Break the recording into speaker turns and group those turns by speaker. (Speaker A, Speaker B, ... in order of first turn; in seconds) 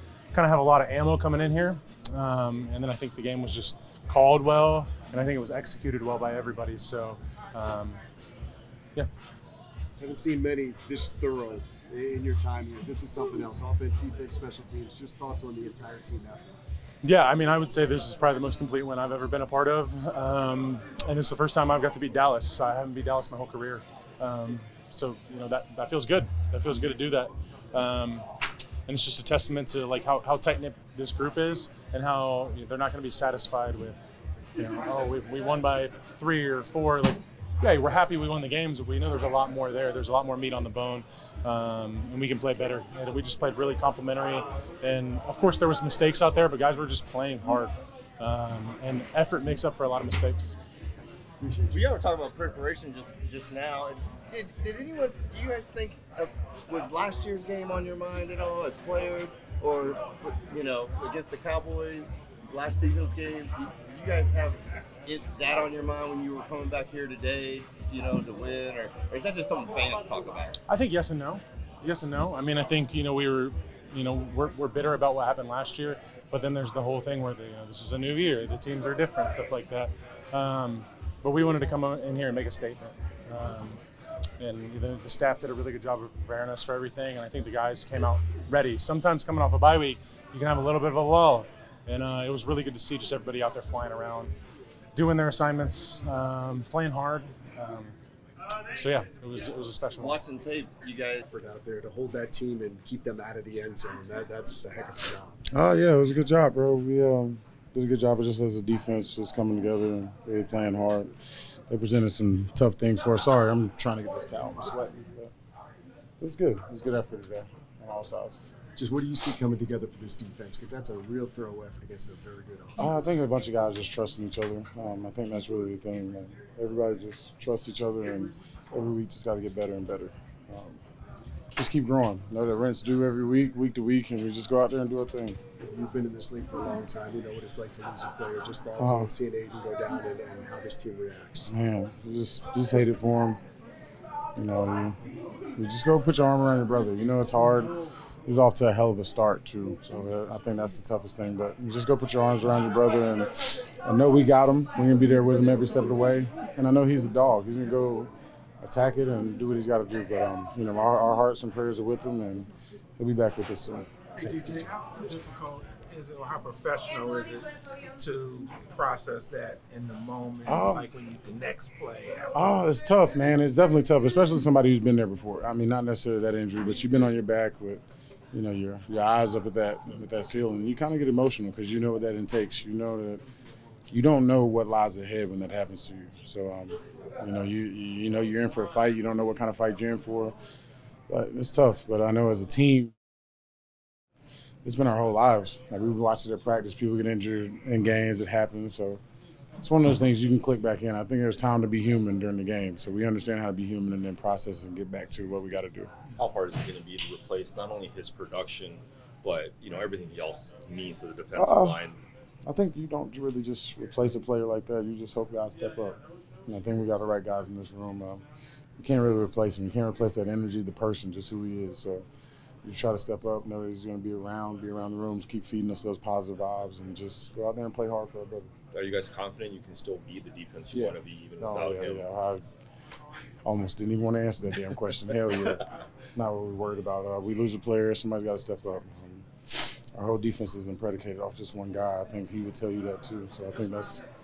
Speaker A: 0.3-8.0, 17.0-28.3, 28.9-34.0, 34.6-50.6, 70.7-83.8, 84.4-94.3, 95.0-97.9, 98.8-100.2
Speaker B: 10.0-16.4, 51.4-51.9, 101.2-105.4, 118.8-123.2, 135.6-141.5
Speaker C: 51.7-70.6, 100.0-101.2
Speaker D: 105.5-111.1, 111.7-115.3, 116.2-118.4, 122.8-130.8, 131.6-135.4, 138.8-139.1, 141.5-143.4, 144.4-145.0, 145.6-147.7, 148.3-158.1, 158.6-164.6, 170.5-170.9, 172.3-183.2, 183.9-190.3, 191.1-192.9, 194.6-199.0, 199.6-205.9, 211.4-211.8, 212.4-218.2, 218.8-222.1, 222.6-228.5, 230.7-232.4, 233.5-244.0
Speaker E: 164.2-172.4
Speaker F: 206.1-212.0, 228.7-232.2